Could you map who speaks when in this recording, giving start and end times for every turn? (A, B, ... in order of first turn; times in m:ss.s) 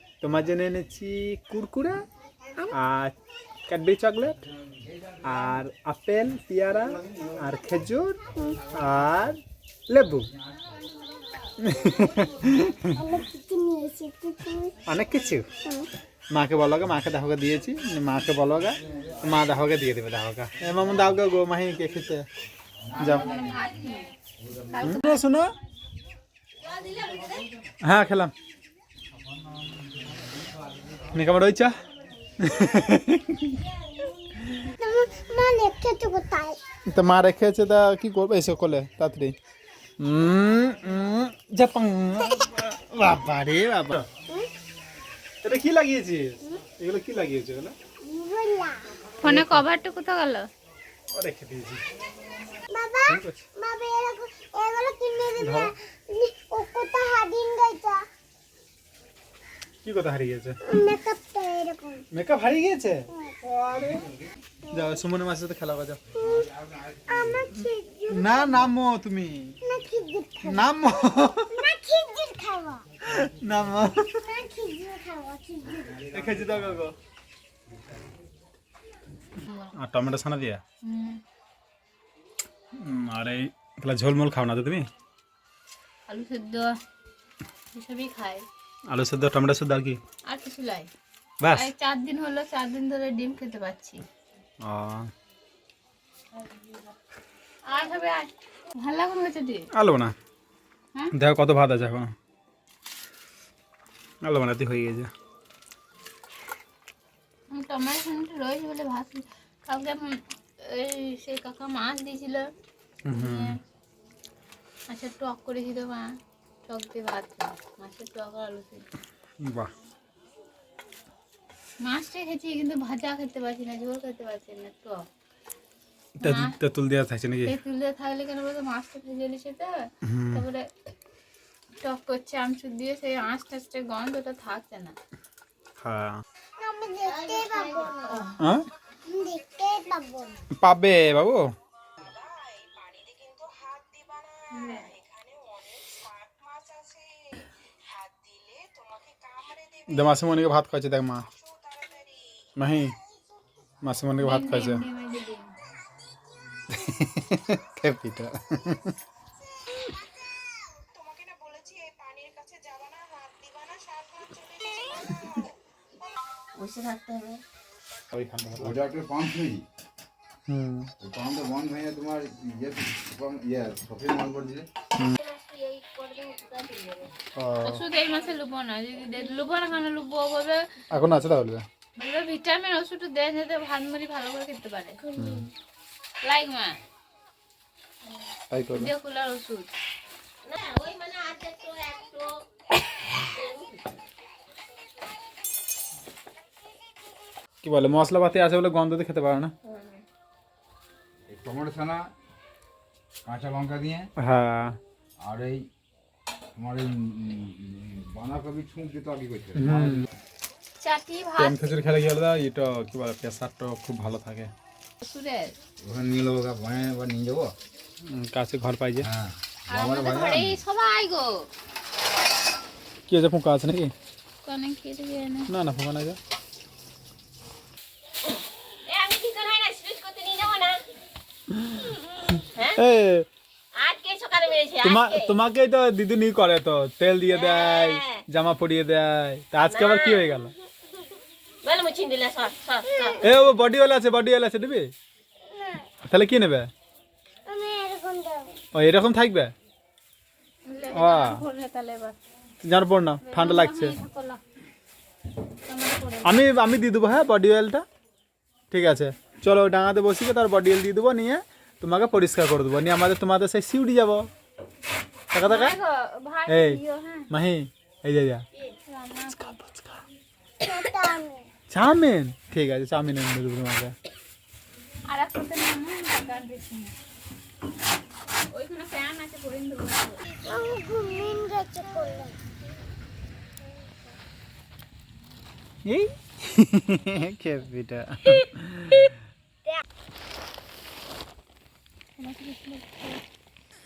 0:00.2-0:02.0 A
0:02.7-0:03.2 A
0:03.7-0:04.4 A
0:05.3-0:10.3 A
0:08.4-0:08.6 B
0:11.6-0:13.0 A
0:12.9-0:14.8 B
0:14.9-0:15.5 A
0:16.3-0:22.2 A
0:23.0-0:23.4 A
0:23.0-0:24.1 C
0:24.7-0:25.2 C
0:24.8-0:25.5 A
0:26.6-0:27.5 D
0:27.8-0:28.3 A
0:31.1-0:31.7 A
0:32.4-0:33.6 A
0:34.8-0:36.6 B
0:36.9-0:39.3 A
0:40.0-0:44.1 A
0:45.4-0:47.7 A
0:48.0-0:48.8 B
0:49.2-0:50.5 C
0:49.2-0:49.6 A
0:51.1-0:51.8 A
0:52.7-0:58.0 B
0:53.1-0:53.4 A
0:55.4-0:55.7 A
0:59.8-1:00.6 A
1:00.7-1:02.0 B
1:02.1-1:04.0 A
1:04.7-1:05.0 B
1:04.7-1:06.0 A
1:06.1-1:06.5 B
1:06.2-1:07.5 E
1:07.1-1:08.7 B
1:08.1-1:09.6 A
1:09.6-1:10.7 B
1:10.4-1:11.7 A
1:11.5-1:12.8 B
1:13.1-1:14.0 A
1:14.2-1:16.0 B
1:15.9-1:16.7 E
1:16.1-1:16.9 A
1:19.4-1:19.7 C
1:19.8-1:20.6 A
1:20.8-1:21.2 C
1:22.8-1:24.8 A
1:26.1-1:26.7 C
1:27.7-1:28.4 C
1:28.9-1:30.0 A
1:30.3-1:30.9 C
1:31.4-1:31.7 A
1:31.5-1:34.0 C
1:34.6-1:35.1 A
1:37.7-1:39.7 C
1:39.7-1:40.1 A
1:41.1-1:42.1 A
1:44.2-1:45.1 A
1:47.5-1:52.5 C
1:53.0-1:53.5 A
1:53.1-1:53.6 C
1:54.9-1:56.1 C
1:56.6-1:58.9 C
1:59.4-1:59.7 A
2:01.8-2:05.0 C
2:06.2-2:07.5 A
2:06.2-2:06.5 C
2:07.4-2:10.6 C
2:10.1-2:10.4 A
2:11.8-2:14.9 C
2:15.8-2:16.2 A
2:16.6-2:18.2 B
2:17.2-2:18.2 C
2:18.4-2:18.6 A
2:19.1-2:20.4 B
2:20.6-2:21.4 A
2:24.6-2:24.9 C
2:29.9-2:31.3 A
2:32.6-2:33.0 A
2:33.8-2:34.8 A
2:34.2-2:35.5 C
2:36.7-2:38.9 A
2:46.5-2:47.4 D
2:48.1-2:48.8 A
2:48.6-2:49.6 E
2:50.5-2:50.9 A
2:51.0-2:54.7 E
2:55.2-2:57.1 D
2:57.4-2:57.8 A
2:57.6-3:00.6 C
3:00.9-3:01.6 A
3:02.0-3:05.0 C
3:05.0-3:05.5 B
3:05.2-3:05.5 A
3:06.2-3:06.8 C
3:08.5-3:08.9 A
3:08.7-3:09.7 C
3:10.4-3:12.4 D
3:13.1-3:13.7 D
3:17.6-3:19.5 A
3:19.6-3:20.0 D
3:21.3-3:22.0 E
3:23.2-3:24.1 E
3:24.2-3:24.8 A
3:25.2-3:25.6 E
3:26.6-3:30.0 E
3:29.6-3:30.0 A
3:30.8-3:31.6 C
3:31.4-3:34.5 A
3:35.0-3:35.6 C
3:35.8-3:37.5 E
3:38.0-3:39.1 A
3:39.0-3:40.6 E
3:39.7-3:41.4 C
3:43.1-3:43.9 A
3:44.4-3:45.5 C
3:45.5-3:46.2 A
3:48.9-3:50.8 D
3:51.6-3:52.0 A
3:52.5-3:52.8 D
3:52.8-3:53.3 A
3:53.7-3:55.4 D
3:54.8-4:00.5 A
3:57.3-3:58.2 D
3:59.7-4:00.3 D
4:01.6-4:03.2 D
4:02.9-4:03.2 B
4:03.2-4:04.9 A
4:05.5-4:05.8 B
4:06.1-4:06.7 A
4:07.4-4:08.6 B
4:08.7-4:09.5 A
4:10.7-4:12.2 C
4:10.9-4:11.4 A
4:12.6-4:14.0 A
4:13.2-4:14.4 C
4:15.7-4:16.4 C
4:16.2-4:17.8 A
4:18.7-4:24.2 A
4:25.3-4:25.8 A
4:25.4-4:27.3 C
4:26.5-4:28.4 A
4:28.6-4:29.6 C
4:29.3-4:30.0 A
4:30.6-4:31.5 B
4:31.7-4:33.9 A
4:35.1-4:36.9 C
4:38.5-4:40.3 C
4:40.4-4:42.4 B
4:45.8-4:49.1 A
4:52.2-4:53.0 C